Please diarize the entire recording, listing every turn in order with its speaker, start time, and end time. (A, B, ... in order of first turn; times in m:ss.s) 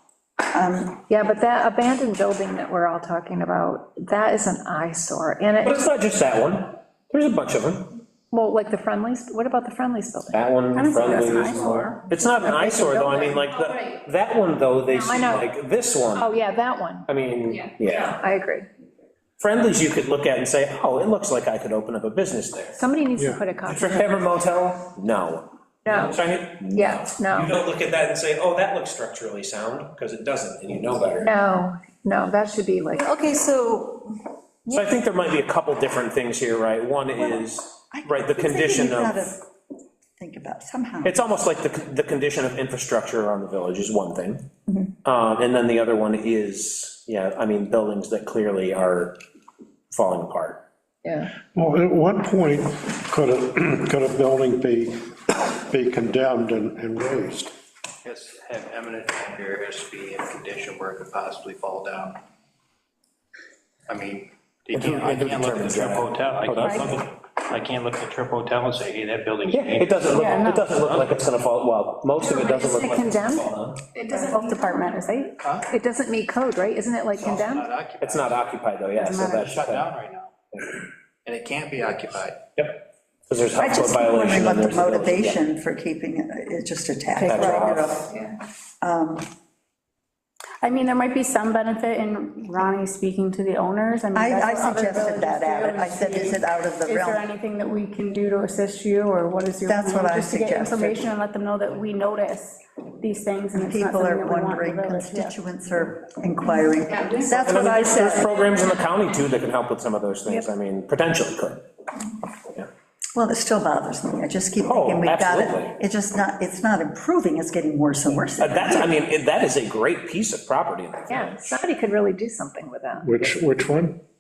0:00.4-0:01.0 A
0:01.1-0:05.8 B
0:05.6-0:08.0 C
0:08.3-0:11.6 B
0:10.3-0:16.3 C
0:10.8-0:11.9 D
0:14.9-0:15.5 B
0:16.2-0:17.1 B
0:17.1-0:18.2 C
0:17.8-0:18.7 B
0:19.4-0:22.8 C
0:22.8-0:24.1 B
0:23.6-0:31.3 C
0:25.8-0:26.2 B
0:26.7-0:27.5 B
0:31.2-0:33.1 B
0:33.0-0:34.3 A
0:34.7-0:39.4 C
0:37.2-0:39.4 A
0:40.2-0:41.2 A
0:41.0-0:44.5 C
0:45.0-0:49.2 C
0:49.9-0:50.6 C
0:51.0-0:51.3 B
0:51.5-0:57.5 E
0:58.0-1:02.2 F
1:03.9-1:11.2 F
1:04.7-1:06.9 C
1:09.5-1:13.8 C
1:12.2-1:17.7 B
1:17.2-1:20.3 F
1:18.0-1:19.9 C
1:21.2-1:22.4 F
1:22.6-1:25.4 C
1:23.6-1:28.1 A
1:27.2-1:27.9 C
1:28.8-1:29.3 A
1:30.6-1:45.3 D
1:34.1-1:37.2 A
1:39.6-1:41.0 A
1:43.5-1:48.3 A
1:47.3-1:51.6 C
1:53.1-1:59.0 A
1:54.6-1:55.7 C
1:58.4-2:01.6 C
2:01.1-2:03.1 B
2:03.0-2:04.0 E